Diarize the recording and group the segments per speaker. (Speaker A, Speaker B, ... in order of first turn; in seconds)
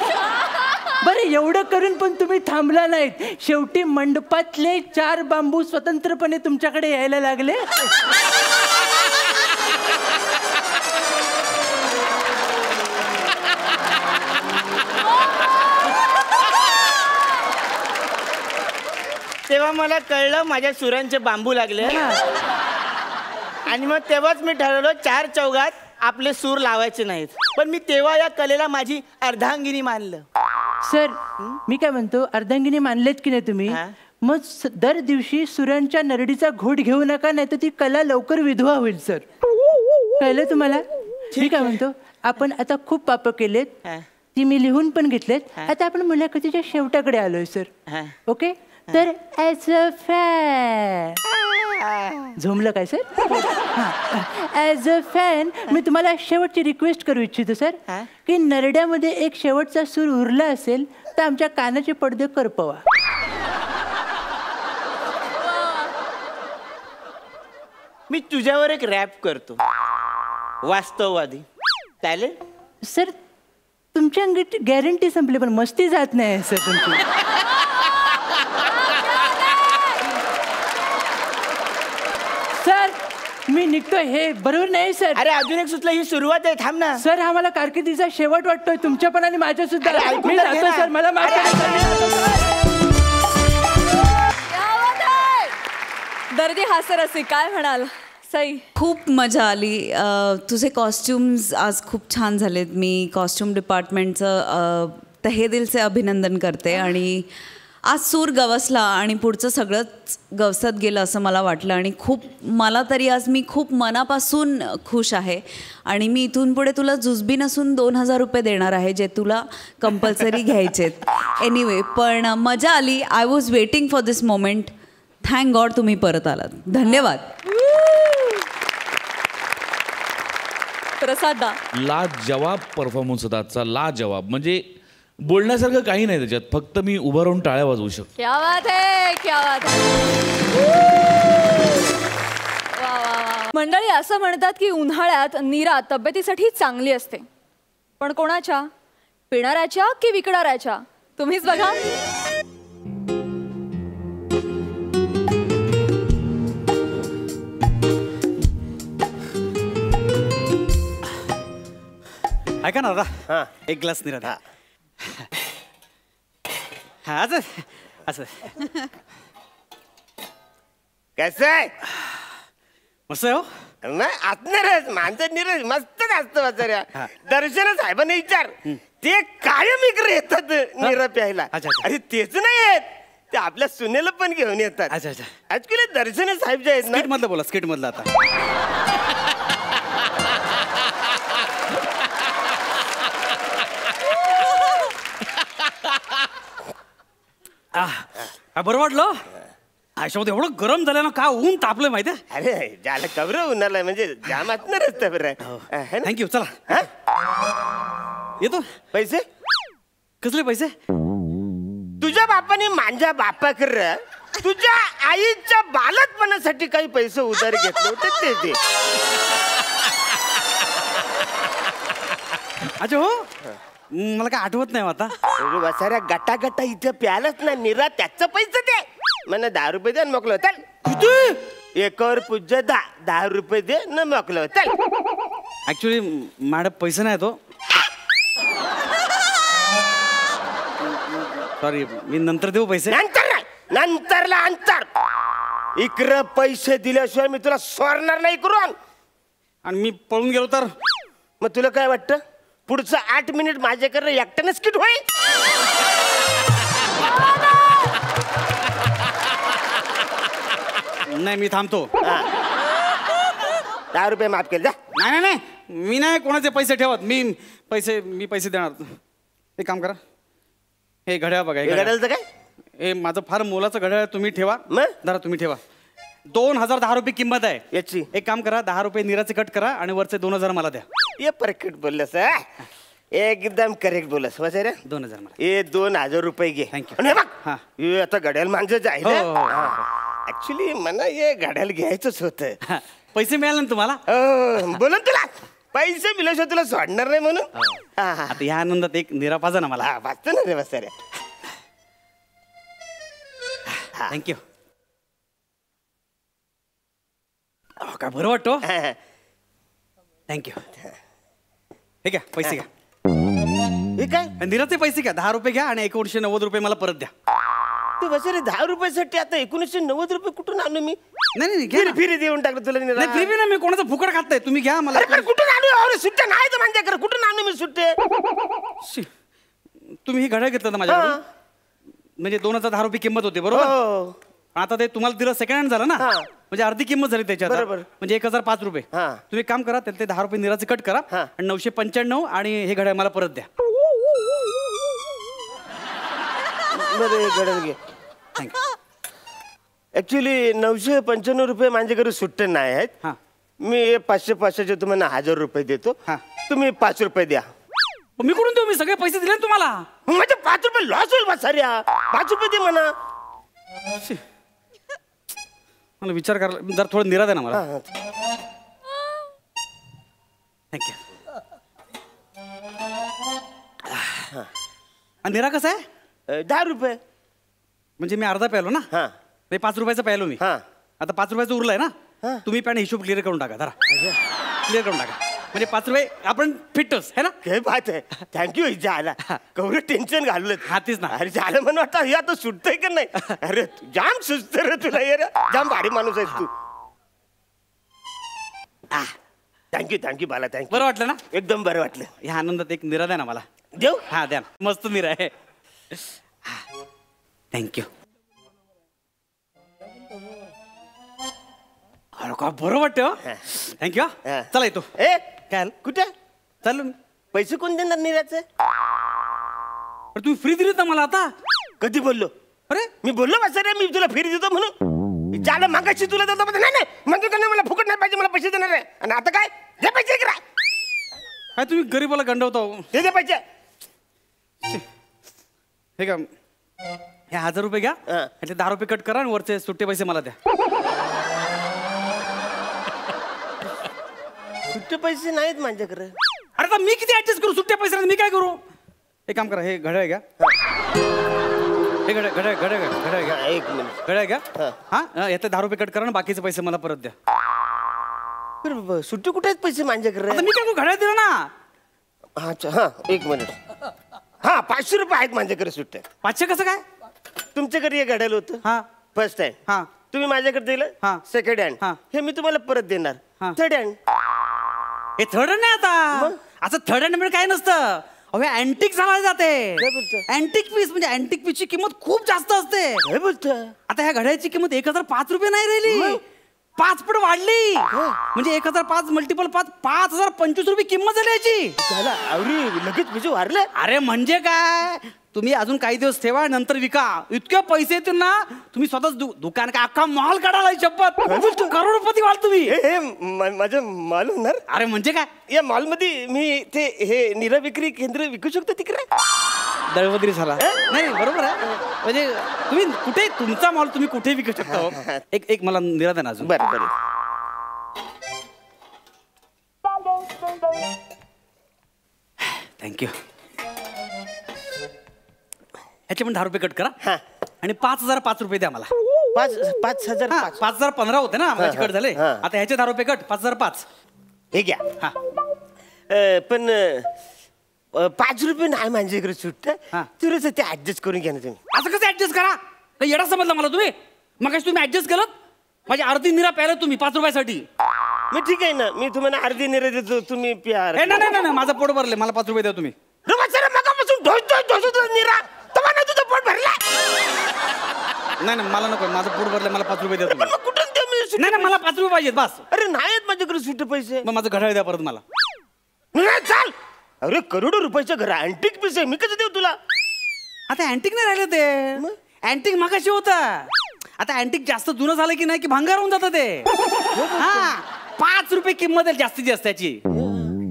Speaker A: 1.0-7.8, 21.8-22.2, 30.8-39.2, 40.2-43.8, 44.3-47.7, 48.3-51.2, 52.4-53.1, 53.8-62.8, 72.8-73.2, 73.9-77.0, 82.5-85.2, 87.0-92.0
Speaker B: 19.5-22.0, 23.7-30.2, 33.7-33.9, 41.4-41.8, 47.9-48.1, 51.6-52.3, 68.1-69.6, 70.6-71.5, 72.0-72.4, 85.2-87.0, 89.8-92.2
Speaker C: 78.9-79.8, 94.4-95.6, 96.3-98.7, 127.5-128.4, 131.0-131.6, 138.2-140.1, 142.8-147.2, 148.0-148.7, 149.3-151.8
Speaker D: 98.8-107.3, 107.9-127.3
Speaker E: 131.8-134.6, 135.3-138.1
Speaker F: 162.6-163.1, 163.7-164.4, 167.1-168.7, 173.1-173.5, 181.5-181.9, 184.9-185.3, 186.8-188.1, 197.7-199.2, 200.0-202.2, 205.4-206.8, 208.4-208.7, 210.2-210.7, 222.8-223.3, 223.9-225.2, 230.8-231.4, 235.7-237.4, 241.6-243.0, 249.7-250.7, 261.1-261.9, 265.0-269.0, 269.6-270.0, 271.1-271.9, 272.8-275.6, 276.3-277.6, 278.1-280.9, 284.9-285.3, 286.7-287.6, 289.0-289.8, 292.7-294.0, 298.3-299.9, 304.1-304.4, 307.8-308.7, 310.3-310.6, 312.1-312.7, 314.4-317.1, 321.4-322.0, 323.0-325.3, 330.1-331.2, 332.2-333.8, 334.6-343.5, 358.2-359.9, 366.0-367.6, 370.7-371.0, 375.2-375.8, 378.0-378.9, 379.5-380.4, 381.0-381.9, 382.5-383.8, 384.7-387.4, 390.6-391.2, 400.7-401.2, 402.2-403.4, 404.1-405.3, 407.5-407.9, 412.2-414.9, 415.5-415.8, 416.6-416.9, 420.1-421.3, 431.6-432.9, 436.0-436.3, 437.3-440.4, 446.6-448.6, 449.3-450.2, 452.1-453.4, 454.1-457.1, 460.3-461.5, 466.2-466.8, 469.7-470.0, 475.2-483.0, 483.9-486.2, 486.8-491.7, 493.8-502.8, 504.7-505.3, 509.9-516.5, 522.8-523.1, 526.1-526.9, 527.6-528.9, 530.3-533.9, 541.7-545.3, 545.9-547.7, 551.0-553.0, 558.4-560.5, 561.4-562.6, 564.2-565.2, 570.7-580.0
Speaker G: 171.2-171.7, 173.8-184.9, 185.5-187.1, 202.3-206.1, 208.9-209.2, 212.0-218.6, 225.4-230.7, 231.8-234.7, 242.9-244.9, 245.8-248.8, 251.4-255.0, 263.9-264.8, 271.6-272.2, 274.7-274.9, 277.7-278.1, 281.2-282.4, 283.1-284.8, 285.4-292.6, 294.1-298.4, 299.8-300.9, 308.6-309.0, 314.0-314.3, 318.0-321.0, 321.7-323.3, 324.9-327.9, 330.9-331.2, 333.5-334.2, 336.0-336.3, 337.4-337.9, 338.9-339.2, 346.7-347.8, 349.9-352.9, 353.6-357.5, 360.1-362.9, 367.5-367.8, 376.3-377.0, 383.9-384.2, 387.4-396.5, 399.7-402.1, 403.8-404.0, 415.0-416.1, 417.3-418.4, 421.8-422.3, 423.0-424.8, 425.3-430.4, 432.9-433.4, 444.7-446.1, 453.2-454.0, 458.6-460.5, 462.4-463.6, 464.4-466.1, 467.6-468.6, 469.1-474.0, 479.8-480.2, 483.1-483.7, 485.9-486.2, 487.9-488.2, 491.8-493.7, 501.3-501.7, 502.7-504.6, 505.5-509.1, 514.7-515.2, 516.4-516.9, 529.3-530.6, 531.6-532.4, 534.5-534.8, 536.1-537.1, 537.9-541.6, 548.3-551.2, 553.3-556.8, 560.3-561.8, 562.7-564.2, 566.1-569.8, 577.2-577.7, 580.1-580.5